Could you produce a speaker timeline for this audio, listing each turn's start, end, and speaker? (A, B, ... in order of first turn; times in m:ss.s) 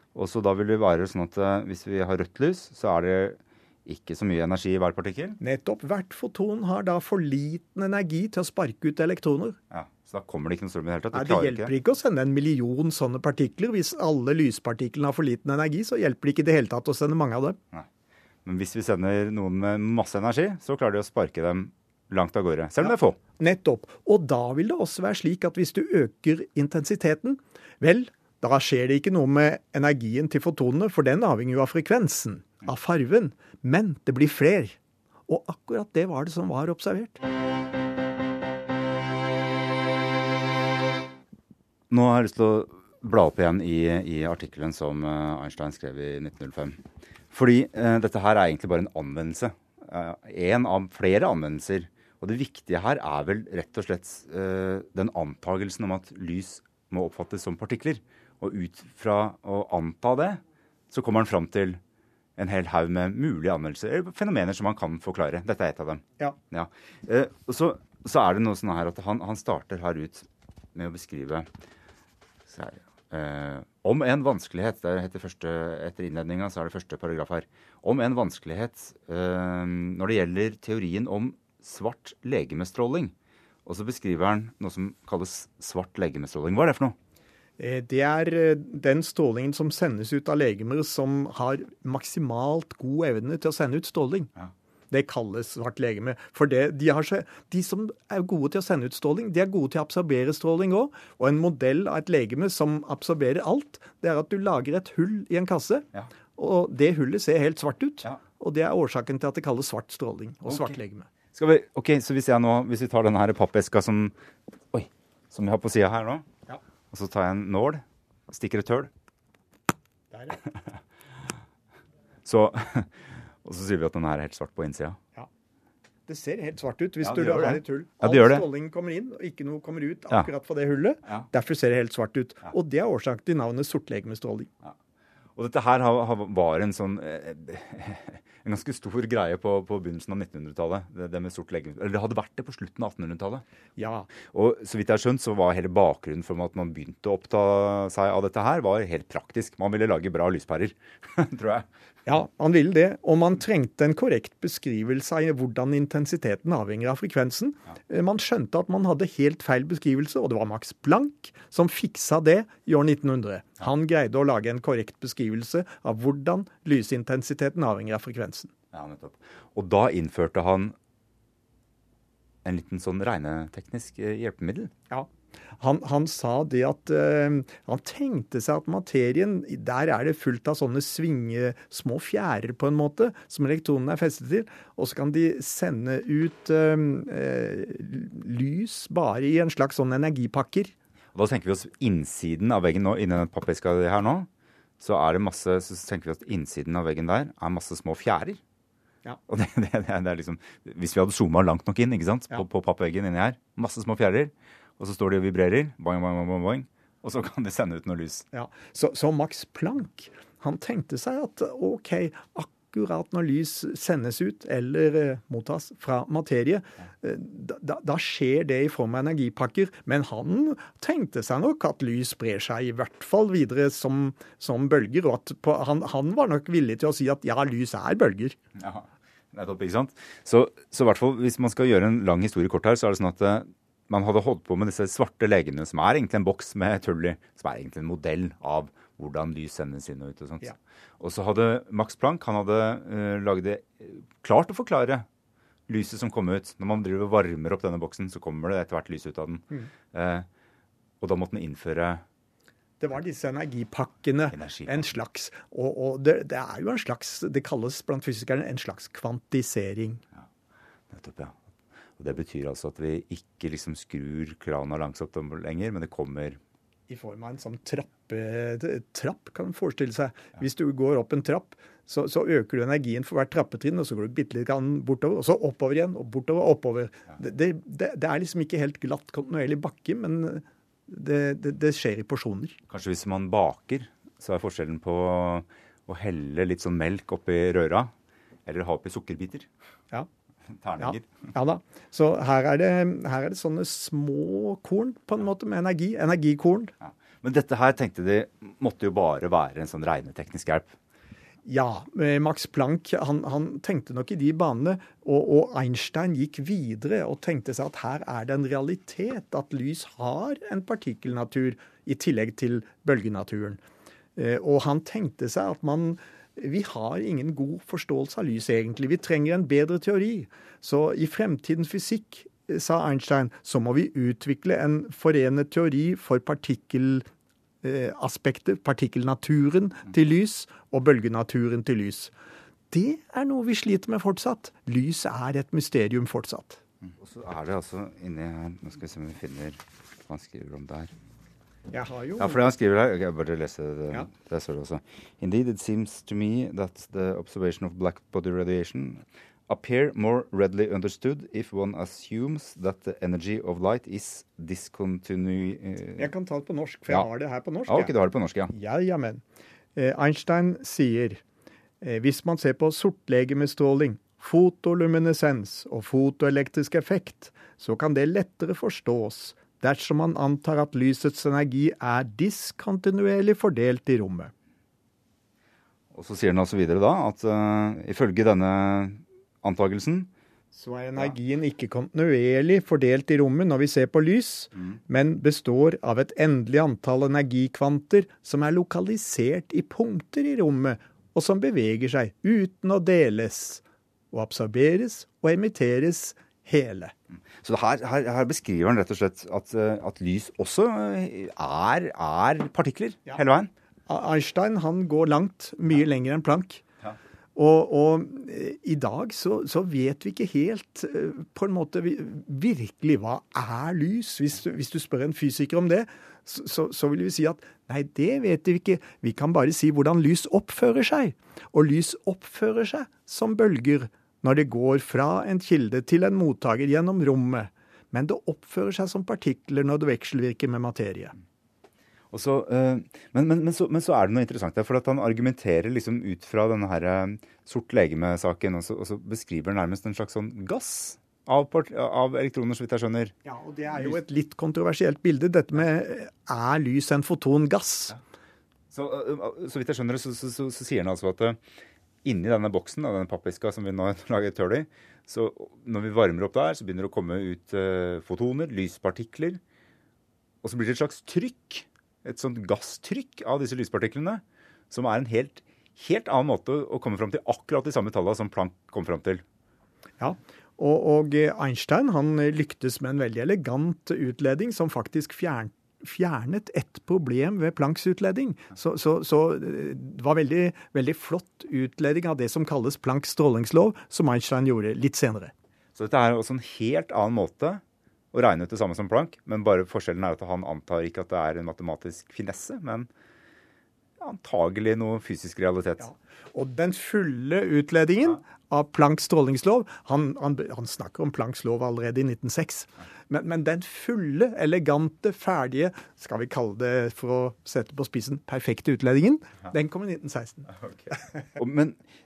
0:00.1-0:05.4 A
0:05.4-0:09.6 B
0:09.7-0:11.7 A
0:11.1-0:17.6 B
0:18.4-0:23.2 A
0:22.8-0:37.2 B
0:41.9-1:01.8 A
1:02.4-1:11.5 A
1:12.5-1:23.1 A
1:23.6-1:27.0 A
1:27.6-1:34.3 B
1:34.9-1:51.1 B
1:50.4-1:50.8 A
1:51.3-1:54.2 A
1:54.7-1:56.2 A
1:56.9-1:58.9 A
2:00.1-2:00.4 B
2:02.2-2:05.0 A
2:06.1-2:14.5 B
2:07.0-2:08.4 A
2:15.4-2:23.4 A
2:23.8-2:24.1 B
2:24.2-2:31.7 A
2:32.0-2:48.5 B
2:48.7-2:50.7 A
2:52.4-2:54.7 A
2:54.9-3:10.7 B
3:11.1-3:14.3 A
3:14.8-3:18.4 A
3:19.3-3:28.2 A
3:28.3-3:48.4 B
3:48.6-4:05.1 A
4:05.7-4:10.3 A
4:11.0-4:12.0 A
4:12.8-4:20.0 B
4:14.3-4:14.8 A
4:20.9-4:21.4 A
4:22.0-4:26.4 A
4:26.9-4:42.6 B
4:42.7-4:47.9 A
4:48.4-4:49.5 A
4:50.5-4:51.1 A
4:50.8-4:56.7 B
4:56.8-5:00.7 A
5:01.4-5:13.6 B
5:14.2-5:27.0 B
5:27.6-5:32.1 B
5:32.7-5:36.6 B
5:36.9-5:40.9 A
5:41.7-5:42.4 B
5:42.2-5:56.1 A
5:56.0-5:57.9 B
5:57.7-5:58.5 A
5:58.5-5:59.2 B
5:59.8-6:01.2 B
6:01.8-6:14.3 B
6:15.9-6:20.1 A
6:20.5-6:36.9 B
6:37.3-6:43.5 A
6:43.9-6:46.6 B
6:47.4-7:11.1 B
7:12.1-7:23.1 A
7:23.2-7:28.0 B
7:28.7-7:31.4 A
7:32.0-7:39.4 A
7:40.4-7:49.2 A
7:50.0-8:05.3 B
8:05.7-8:12.9 A
8:14.0-8:15.9 A
8:15.8-8:31.2 B
8:30.5-8:31.8 A